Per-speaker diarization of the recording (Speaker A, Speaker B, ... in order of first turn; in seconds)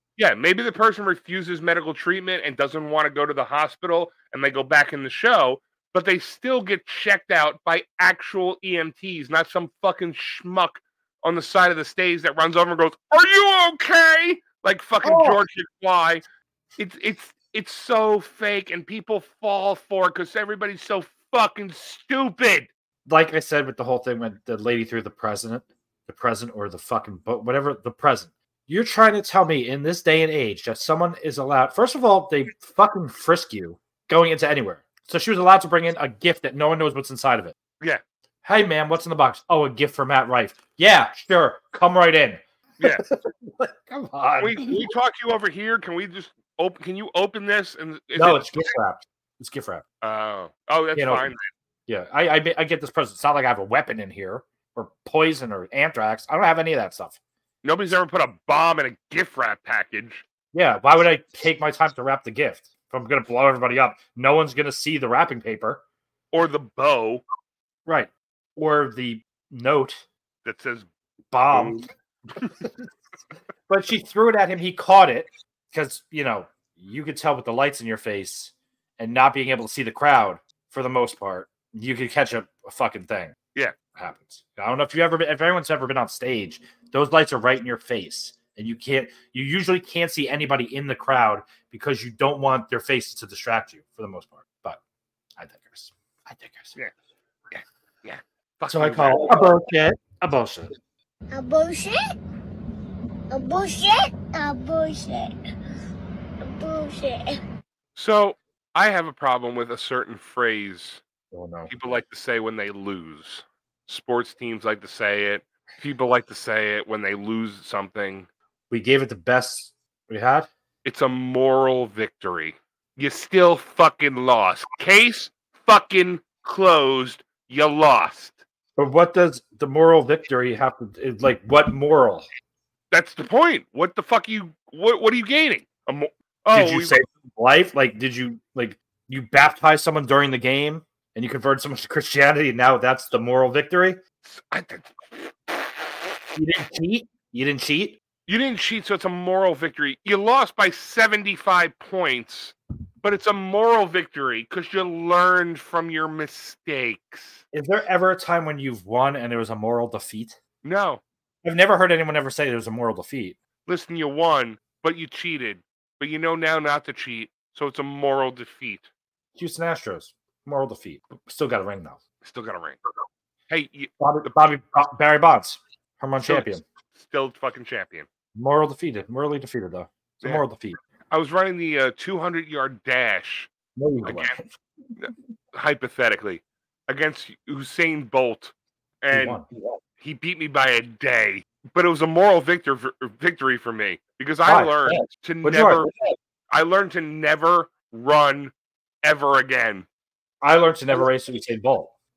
Speaker A: 0.2-16.2, 16.8-22.7, 44.4-48.7, 50.0-51.4, 57.6-60.2, 66.3-67.2, 70.5-70.9, 71.5-71.9, 97.5-99.5, 108.0-111.0, 111.7-118.3, 120.8-128.4, 132.9-137.0, 144.2-145.9, 148.3-157.4, 160.6-161.0, 163.7-168.9, 172.2-172.8, 173.5-174.3, 176.2-178.1, 181.1-183.5, 184.0-184.4, 185.0-189.4, 190.0-195.9, 196.5-199.9
Speaker B: 15.0-15.4, 23.1-37.6, 38.4-44.9, 48.2-49.8, 51.0-51.3, 51.9-57.2, 60.5-65.8, 67.9-70.0, 71.3-71.8, 72.4-72.7, 73.7-83.4, 84.0-94.8, 95.4-96.8, 98.7-100.7, 111.3-111.7, 118.7-120.5, 128.8-132.3, 136.5-144.0, 146.3-148.0, 157.5-160.4, 161.4-163.4, 169.3-172.0, 174.0-176.6, 178.3-180.8, 183.8-184.5, 189.1-189.5, 194.5-195.9, 200.4-201.9
Speaker C: 101.3-102.0, 103.3-105.3, 106.4-107.4